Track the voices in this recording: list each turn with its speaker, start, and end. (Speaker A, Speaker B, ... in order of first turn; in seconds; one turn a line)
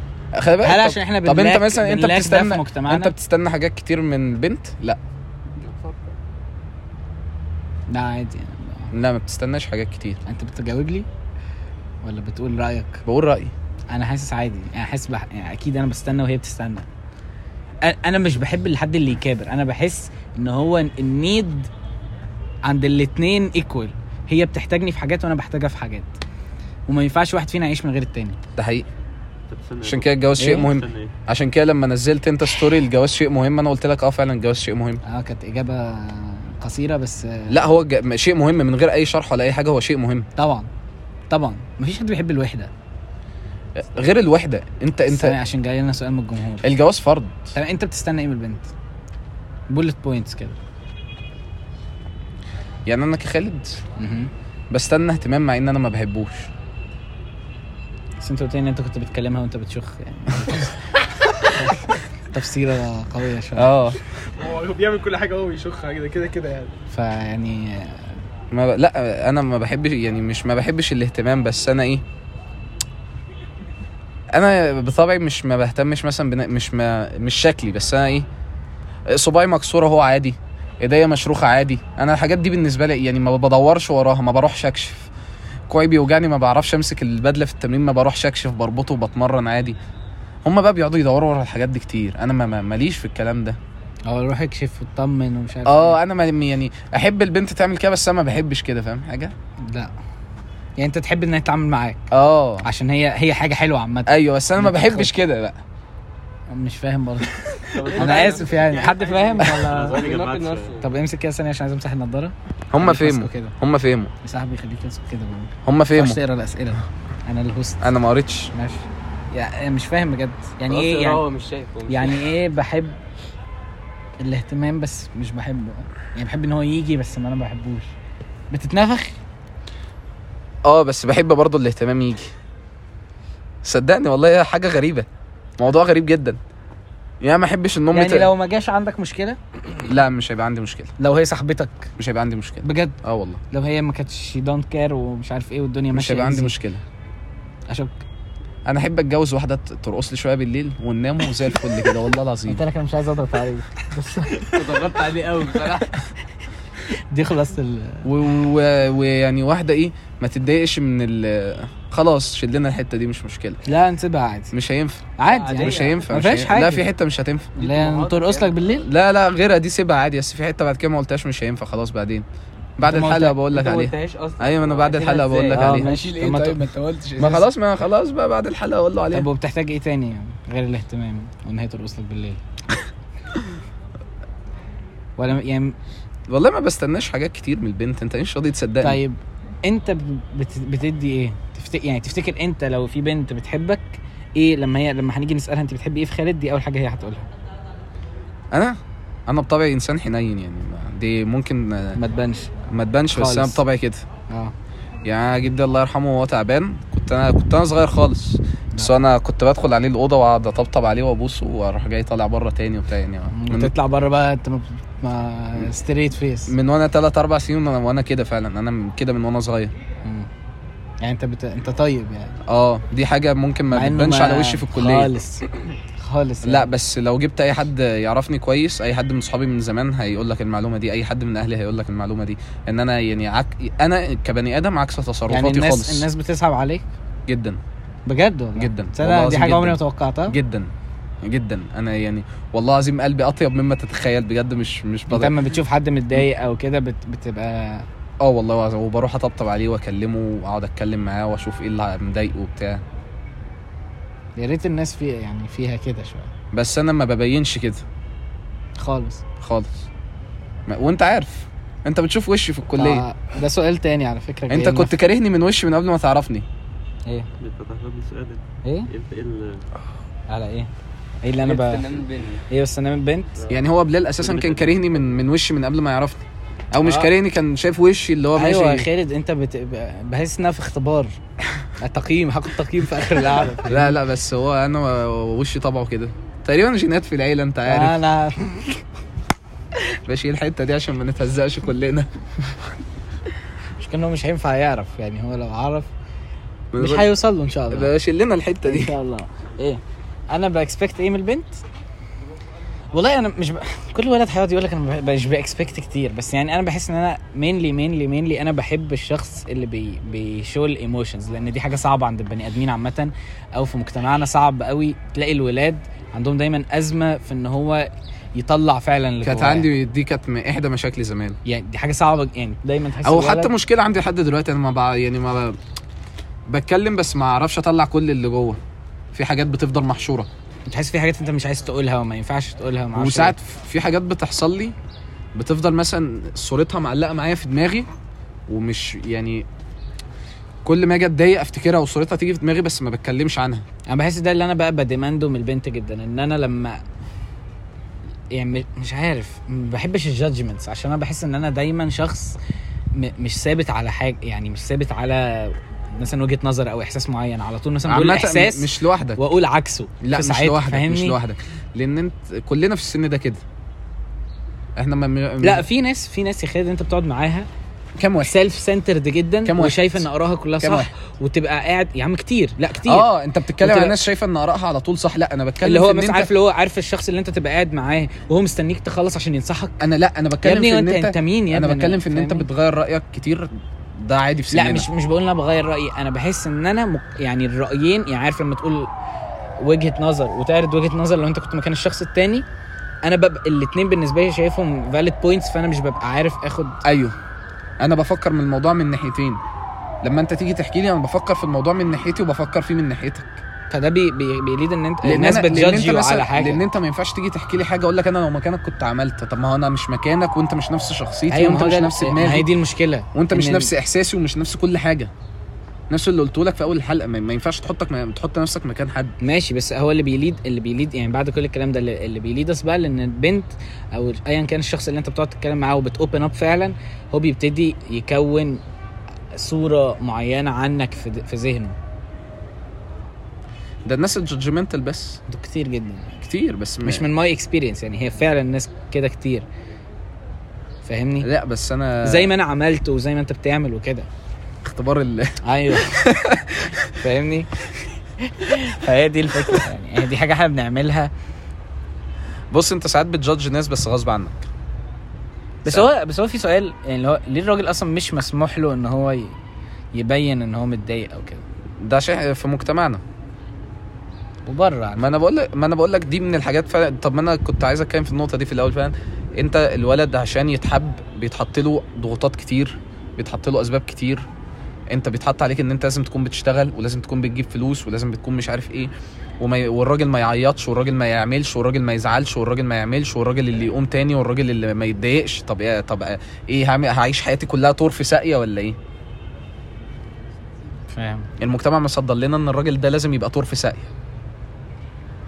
Speaker A: 0.3-5.0
Speaker B: 0.6-3.1
Speaker B: 7.9-8.9
Speaker A: 8.9-10.2
Speaker B: 10.3-11.1
Speaker B: 12.0-13.0
Speaker A: 13.1-13.5
Speaker B: 13.9-16.9
Speaker B: 17.8-21.7
Speaker B: 22.6-26.1
Speaker B: 26.9-28.4
Speaker A: 28.6-28.9
Speaker C: 29.5-31.1
Speaker A: 29.8-35.0
Speaker B: 30.4-30.7
Speaker B: 35.0-37.6
Speaker A: 37.5-40.3
Speaker B: 40.4-40.7
Speaker B: 41.3-42.7
Speaker A: 43.8-45.4
Speaker B: 45.1-46.7
Speaker A: 46.6-47.5
Speaker B: 47.5-48.7
Speaker B: 49.7-50.6
Speaker A: 52.9-53.8
Speaker B: 54.0-54.3
Speaker A: 54.7-56.5
Speaker B: 58.2-60.8
Speaker B: 61.5-63.7
Speaker A: 63.6-64.0
Speaker D: 64.4-66.7
Speaker B: 66.9-68.1
Speaker A: 68.5-72.0
Speaker A: 74.3-78.3
Speaker A: 79.1-85.1
Speaker A: 85.7-89.8
Speaker A: 90.4-93.6
Speaker B: 94.1-96.0
Speaker A: 95.7-99.3
Speaker B: 99.7-99.9
Speaker B: 100.8-102.1
Speaker A: 102.1-102.7
Speaker B: 102.6-105.1
Speaker A: 104.1-105.6
Speaker B: 106.5-110.1
Speaker E: 107.8-110.8
Speaker D: 108.0-108.3
Speaker C: 109.6-110.8
Speaker B: 110.8-113.5
Speaker A: 112.7-114.1
Speaker B: 114.2-118.0
Speaker A: 115.7-116.2
Speaker A: 117.8-118.5
Speaker B: 118.5-121.2
Speaker E: 120.7-122.3
Speaker B: 121.9-123.0
Speaker B: 124.2-127.9
Speaker B: 128.5-129.1
Speaker A: 130.6-132.3
Speaker A: 133.6-135.1
Speaker A: 135.6-136.4
Speaker A: 137.2-138.3
Speaker B: 137.9-139.4
Speaker A: 139.8-140.9
Speaker B: 141.0-141.9
Speaker A: 142.0-143.4
Speaker B: 142.6-143.0
Speaker B: 143.5-146.5
Speaker A: 145.9-146.8
Speaker B: 147.7-148.0
Speaker A: 148.7-152.6
Speaker B: 152.5-154.8
Speaker E: 154.5-155.9
Speaker B: 157.1-158.1
Speaker A: 158.0-163.6
Speaker B: 163.7-164.5
Speaker A: 164.5-167.5
Speaker B: 165.2-166.9
Speaker E: 165.3-166.0
Speaker E: 167.6-168.5
Speaker B: 167.6-168.9
Speaker A: 168.8-172.3
Speaker A: 172.8-175.9
Speaker B: 172.8-173.4
Speaker E: 173.5-175.7
Speaker B: 175.5-176.7
Speaker D: 175.7-177.5
Speaker A: 177.2-179.3
Speaker B: 179.1-182.4
Speaker B: 185.2-185.8
Speaker A: 186.3-189.0
Speaker B: 188.8-197.3
Speaker A: 198.5-202.0
Speaker B: 202.0-202.5
Speaker A: 202.7-204.1
Speaker B: 203.1-203.6
Speaker B: 204.3-204.5
Speaker A: 205.1-213.7
Speaker B: 213.3-216.5
Speaker A: 216.5-219.7
Speaker B: 221.0-222.4
Speaker A: 222.5-225.2
Speaker B: 223.7-225.4
Speaker B: 226.0-226.7
Speaker A: 226.4-236.1
Speaker B: 235.3-236.8
Speaker A: 237.3-237.6
Speaker B: 238.1-240.3
Speaker A: 238.6-240.7
Speaker A: 241.2-245.4
Speaker B: 245.1-247.9
Speaker A: 248.2-252.8
Speaker B: 254.4-256.3
Speaker A: 256.5-257.9
Speaker B: 258.8-259.2
Speaker A: 259.4-259.9
Speaker A: 260.7-263.1
Speaker B: 262.8-264.9
Speaker A: 264.5-266.5
Speaker C: 267.4-269.6
Speaker B: 270.3-270.7
Speaker B: 271.2-271.9
Speaker E: 271.4-272.4
Speaker B: 272.5-273.4
Speaker A: 273.5-278.9
Speaker C: 274.2-274.9
Speaker B: 276.8-277.1
Speaker B: 278.4-281.1
Speaker B: 281.8-284.0
Speaker A: 283.6-288.0
Speaker B: 287.7-288.8
Speaker A: 290.1-292.1
Speaker B: 293.8-295.9
Speaker A: 296.7-297.1
Speaker B: 296.8-297.9
Speaker A: 297.7-299.0
Speaker B: 298.6-301.6
Speaker B: 302.9-319.7
Speaker A: 319.2-321.4
Speaker B: 321.4-323.5
Speaker A: 323.0-325.6
Speaker A: 326.5-328.6
Speaker A: 329.1-330.3
Speaker B: 330.7-333.4
Speaker A: 332.9-334.8
Speaker A: 335.4-337.9
Speaker A: 338.5-339.5
Speaker A: 340.6-343.7
Speaker B: 343.9-346.8
Speaker B: 348.3-352.4
Speaker B: 352.9-361.2
Speaker A: 357.9-359.2
Speaker A: 360.0-363.4
Speaker A: 364.8-365.6
Speaker B: 365.4-367.5
Speaker A: 368.0-368.3
Speaker B: 368.2-373.1
Speaker A: 369.4-370.1
Speaker A: 370.6-370.9
Speaker A: 372.9-376.3
Speaker B: 373.6-374.0
Speaker B: 375.6-379.8
Speaker A: 379.8-384.9
Speaker B: 380.4-382.5
Speaker B: 384.5-388.9
Speaker B: 389.6-392.4
Speaker B: 393.0-396.8
Speaker A: 396.8-397.1
Speaker A: 397.8-399.4
Speaker A: 400.0-403.4
Speaker B: 403.7-406.6
Speaker A: 405.0-412.5
Speaker B: 411.3-413.7
Speaker A: 413.1-415.1
Speaker A: 415.9-419.2
Speaker B: 419.2-428.6
Speaker B: 429.4-431.8
Speaker A: 433.9-435.2
Speaker B: 435.3-436.2
Speaker A: 436.2-437.1
Speaker B: 436.8-439.5
Speaker B: 440.9-441.3
Speaker A: 441.2-442.3
Speaker B: 442.0-444.1
Speaker A: 444.6-446.8
Speaker B: 445.4-446.1
Speaker B: 446.9-447.5
Speaker B: 448.2-451.1
Speaker A: 452.5-454.5
Speaker B: 455.6-459.4
Speaker B: 459.9-461.4
Speaker A: 461.8-463.0
Speaker B: 464.5-465.1
Speaker A: 465.0-474.3
Speaker A: 474.9-488.8
Speaker B: 490.9-491.3
Speaker A: 491.4-493.9